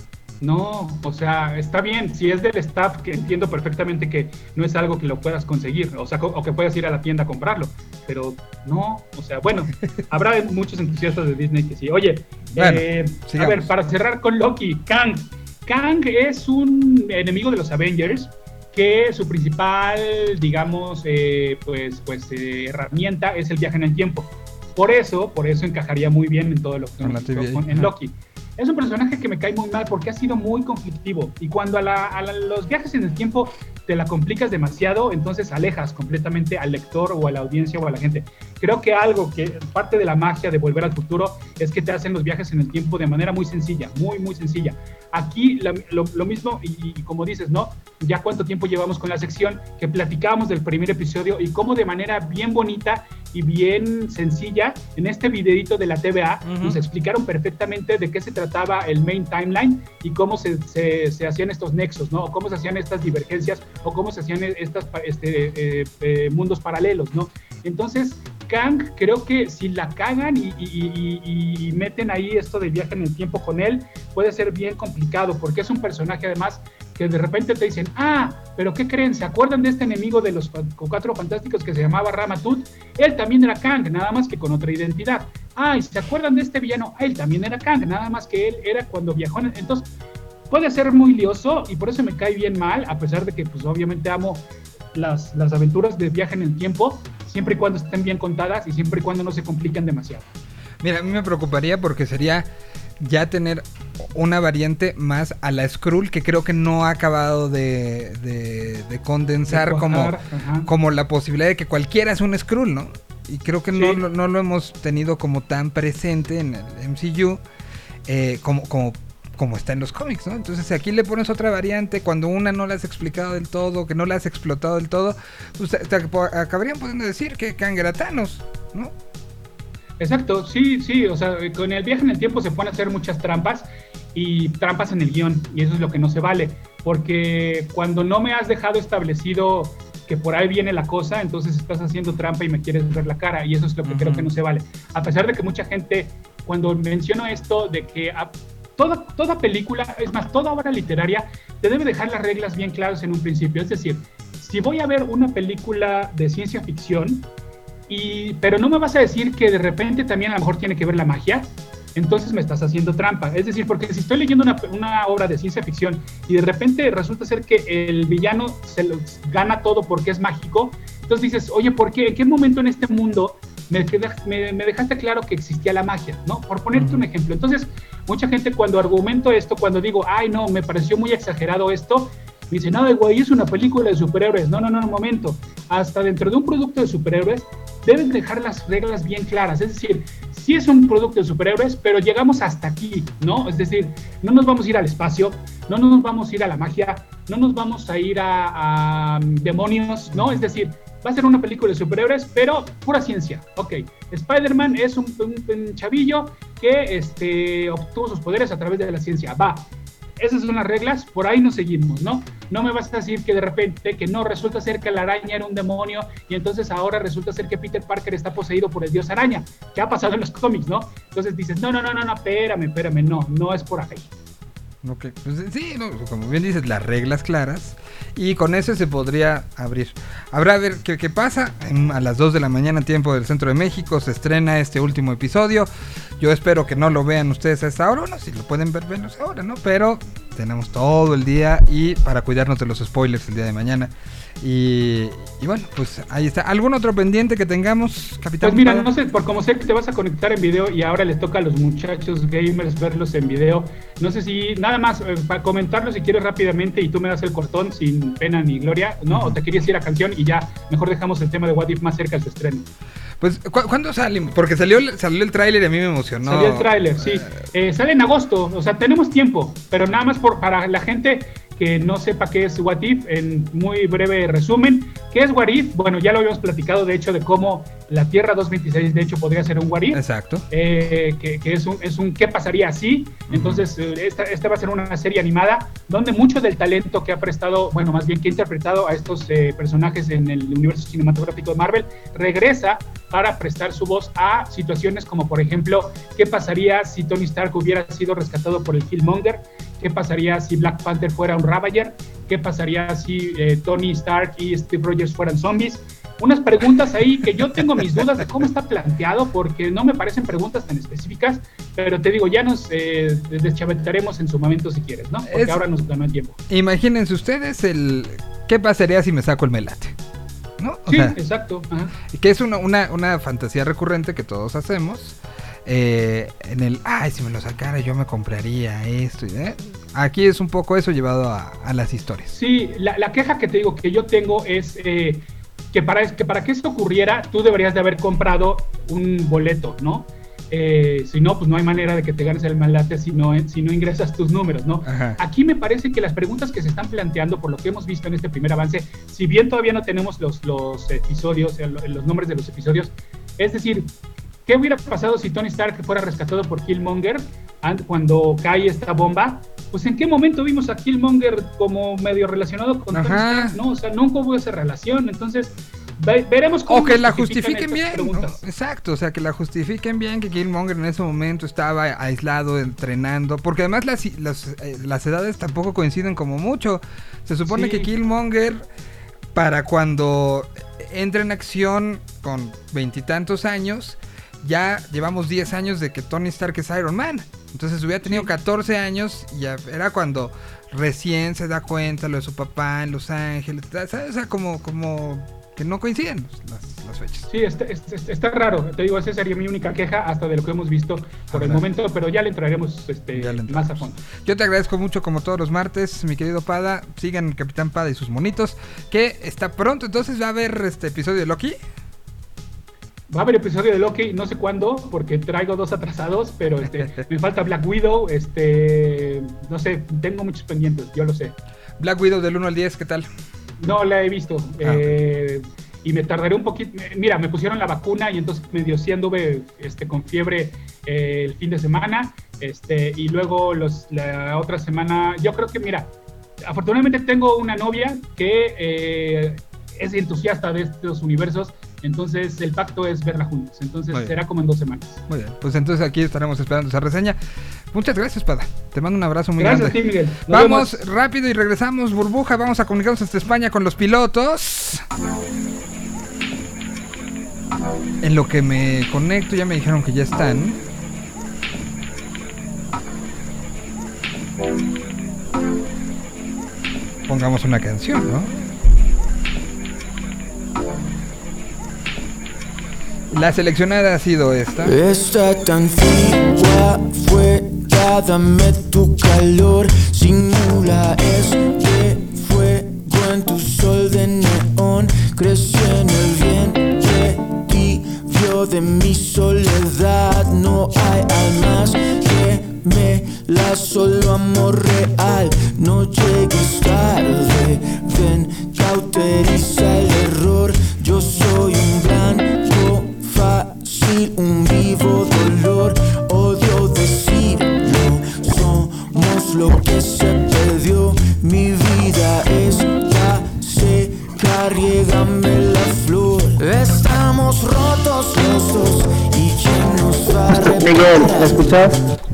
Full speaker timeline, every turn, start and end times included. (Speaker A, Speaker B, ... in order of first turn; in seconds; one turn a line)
Speaker A: 0.4-89.9
Speaker B: 12.5-13.7
Speaker B: 27.0-27.9
Speaker B: 56.4-56.8
Speaker A: 90.5-100.2
Speaker B: 100.8-102.5
Speaker B: 103.0-110.1
Speaker A: 109.5-110.7
Speaker B: 110.7-117.4
Speaker A: 113.7-114.0
Speaker B: 118.1-128.9
Speaker A: 130.0-157.3
Speaker B: 143.8-144.3
Speaker A: 157.9-209.7
Speaker B: 176.7-177.1
Speaker B: 200.1-200.4
Speaker A: 210.2-224.1
Speaker B: 224.8-248.9
Speaker A: 248.4-262.7
Speaker B: 259.1-259.4
Speaker B: 263.2-267.4
Speaker A: 266.2-316.4
Speaker B: 279.9-280.5
Speaker B: 283.3-283.6
Speaker B: 315.2-315.6
Speaker B: 316.5-319.9
Speaker B: 320.6-321.1
Speaker A: 320.9-321.9
Speaker B: 322.1-332.3
Speaker A: 332.3-353.9
Speaker B: 344.8-345.2
Speaker A: 354.4-368.4
Speaker B: 362.9-363.6
Speaker B: 366.7-378.7
Speaker A: 377.4-377.9
Speaker B: 379.3-397.3
Speaker A: 388.0-388.3
Speaker A: 397.3-404.0
Speaker B: 401.3-401.6
Speaker B: 403.1-411.6
Speaker A: 413.1-421.4
Speaker B: 421.8-423.1
Speaker A: 423.6-435.9
Speaker B: 424.6-424.9
Speaker A: 436.4-445.0
Speaker B: 445.1-447.2
Speaker B: 447.7-454.8
Speaker A: 449.4-450.8
Speaker B: 458.0-460.6
Speaker B: 467.1-468.4
Speaker B: 473.1-474.8
Speaker C: 474.6-521.8